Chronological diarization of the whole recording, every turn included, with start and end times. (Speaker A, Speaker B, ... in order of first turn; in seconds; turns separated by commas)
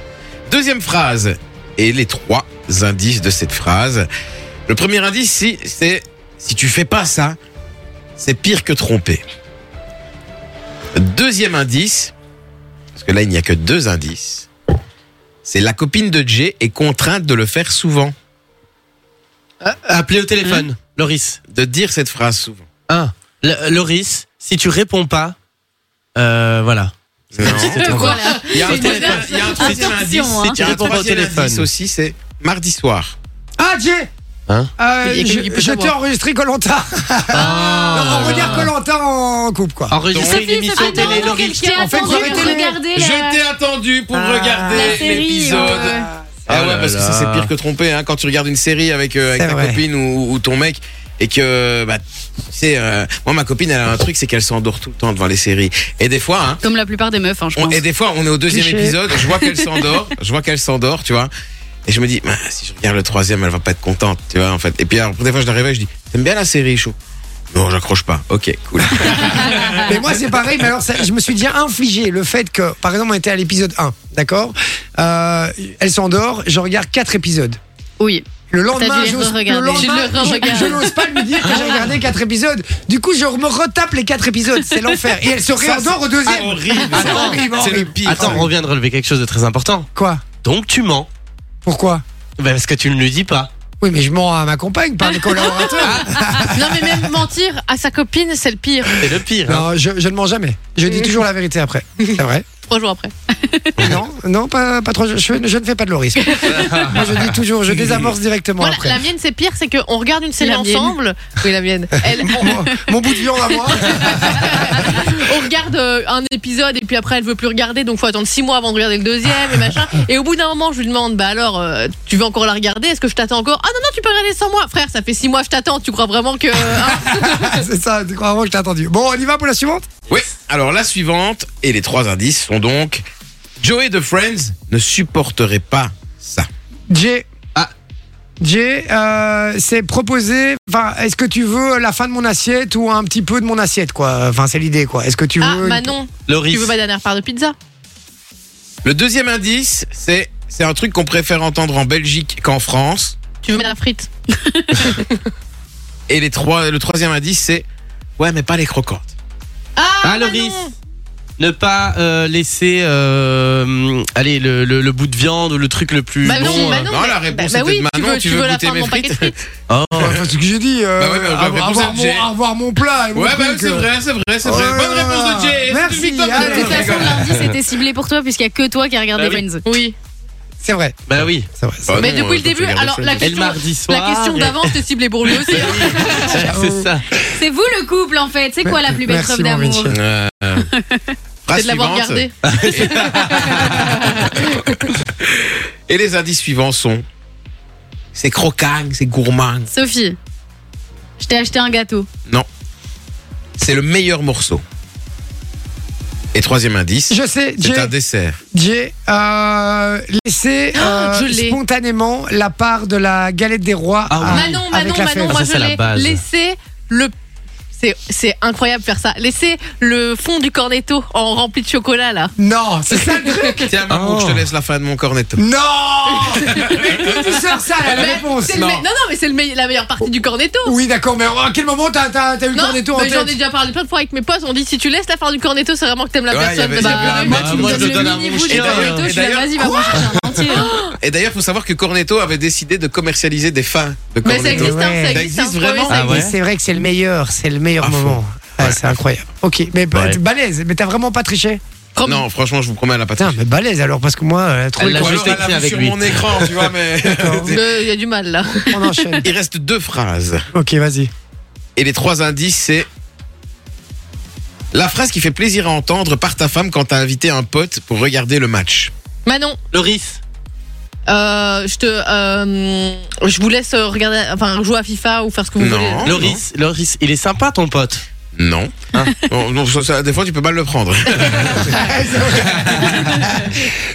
Speaker A: 0.5-4.1, Speaker A: 4.7-7.4, Speaker A: 8.2-9.2, Speaker A: 10.9-12.1, Speaker A: 12.9-14.5, Speaker A: 15.4-18.1, Speaker B: 19.6-21.4, Speaker C: 20.4-20.7, Speaker A: 21.5-22.7, Speaker B: 22.9-25.4, Speaker B: 26.2-30.0, Speaker A: 27.3-33.1, Speaker C: 27.4-30.8, Speaker D: 27.5-29.2, Speaker B: 30.5-31.7, Speaker E: 33.6-34.1, Speaker E: 34.8-40.0, Speaker D: 35.0-35.9, Speaker B: 37.3-38.7, Speaker B: 39.9-41.8, Speaker A: 40.1-41.1, Speaker C: 40.1-43.4, Speaker D: 40.6-42.6, Speaker E: 41.8-42.8, Speaker A: 42.9-56.6, Speaker E: 44.1-46.0, Speaker C: 44.7-46.1, Speaker B: 46.5-47.5, Speaker E: 49.3-49.8, Speaker C: 56.6-57.8, Speaker A: 57.6-61.3, Speaker E: 58.5-59.2, Speaker A: 61.9-67.0, Speaker A: 67.5-69.9, Speaker C: 69.1-69.9, Speaker E: 69.8-77.6, Speaker C: 78.0-80.9, Speaker E: 78.5-88.5, Speaker D: 79.8-80.9, Speaker A: 85.6-88.5, Speaker B: 86.4-87.5, Speaker B: 88.0-89.9, Speaker E: 90.0-90.2, Speaker B: 90.4-91.1, Speaker E: 91.6-92.0, Speaker B: 92.4-93.5, Speaker E: 93.8-97.1, Speaker D: 95.2-99.1, Speaker B: 95.8-96.2, Speaker B: 99.0-99.7, Speaker E: 99.5-102.5, Speaker D: 100.9-101.2, Speaker D: 102.0-103.1, Speaker C: 103.4-103.8, Speaker E: 103.8-109.0, Speaker D: 106.3-106.8, Speaker B: 106.6-107.1, Speaker B: 107.8-108.0, Speaker D: 108.6-112.6, Speaker C: 110.4-111.0, Speaker E: 112.1-115.0, Speaker D: 113.8-127.6, Speaker E: 126.7-129.9, Speaker A: 130.1-133.0, Speaker A: 133.6-136.5, Speaker E: 136.9-137.3, Speaker E: 138.4-145.9, Speaker D: 145.4-147.6, Speaker B: 146.3-146.8, Speaker A: 148.8-153.2, Speaker D: 153.4-154.1, Speaker C: 154.3-154.9, Speaker D: 154.8-155.2, Speaker A: 156.1-157.6, Speaker A: 158.2-159.1, Speaker D: 159.8-160.7, Speaker B: 160.0-160.6, Speaker B: 161.4-166.9, Speaker D: 166.2-169.4, Speaker A: 166.3-169.3, Speaker B: 169.7-170.2, Speaker E: 169.9-173.9, Speaker A: 171.0-172.3, Speaker A: 173.1-177.4, Speaker E: 174.4-177.2, Speaker C: 176.3-179.6, Speaker D: 179.6-179.9, Speaker E: 180.6-182.1, Speaker B: 181.1-181.5, Speaker A: 181.9-183.4, Speaker D: 182.0-186.3, Speaker B: 183.2-184.8, Speaker B: 185.3-187.1, Speaker E: 186.3-186.9, Speaker C: 187.3-189.9, Speaker E: 188.6-190.0, Speaker A: 189.9-190.7, Speaker C: 190.7-191.1, Speaker A: 191.5-194.0, Speaker D: 191.5-194.6, Speaker B: 192.4-193.6, Speaker A: 195.2-197.0, Speaker A: 198.1-199.7, Speaker C: 199.7-200.2, Speaker C: 201.2-202.1, Speaker A: 203.6-204.6, Speaker A: 206.3-208.4, Speaker E: 207.1-207.9, Speaker E: 208.5-215.4, Speaker D: 210.8-211.6, Speaker B: 214.1-214.6, Speaker D: 214.3-217.1, Speaker B: 215.2-216.2, Speaker D: 217.8-222.3, Speaker E: 222.4-223.7, Speaker D: 222.9-223.6, Speaker A: 223.7-225.4, Speaker B: 223.9-224.5, Speaker E: 225.4-228.8, Speaker D: 226.4-227.2, Speaker D: 227.9-230.8, Speaker E: 230.6-233.4, Speaker D: 232.5-237.8, Speaker A: 236.3-240.2, Speaker C: 236.8-240.7, Speaker B: 237.2-239.1, Speaker D: 240.5-240.9, Speaker A: 241.0-246.1, Speaker D: 244.2-246.2, Speaker E: 244.4-245.3, Speaker B: 245.9-246.3, Speaker E: 246.0-251.6, Speaker A: 247.8-248.9, Speaker D: 252.0-252.2, Speaker A: 252.0-253.4, Speaker E: 253.2-255.5, Speaker B: 254.8-256.5, Speaker A: 254.9-257.6, Speaker E: 257.0-257.6, Speaker D: 257.5-258.7, Speaker E: 258.5-259.3, Speaker A: 259.2-260.4, Speaker E: 260.5-261.1, Speaker A: 261.8-262.9, Speaker A: 264.7-268.9, Speaker D: 269.2-269.6, Speaker B: 269.7-270.2, Speaker D: 271.1-276.1, Speaker A: 275.6-276.4, Speaker B: 276.1-278.0, Speaker A: 278.4-281.8, Speaker E: 281.5-283.6, Speaker A: 282.4-282.9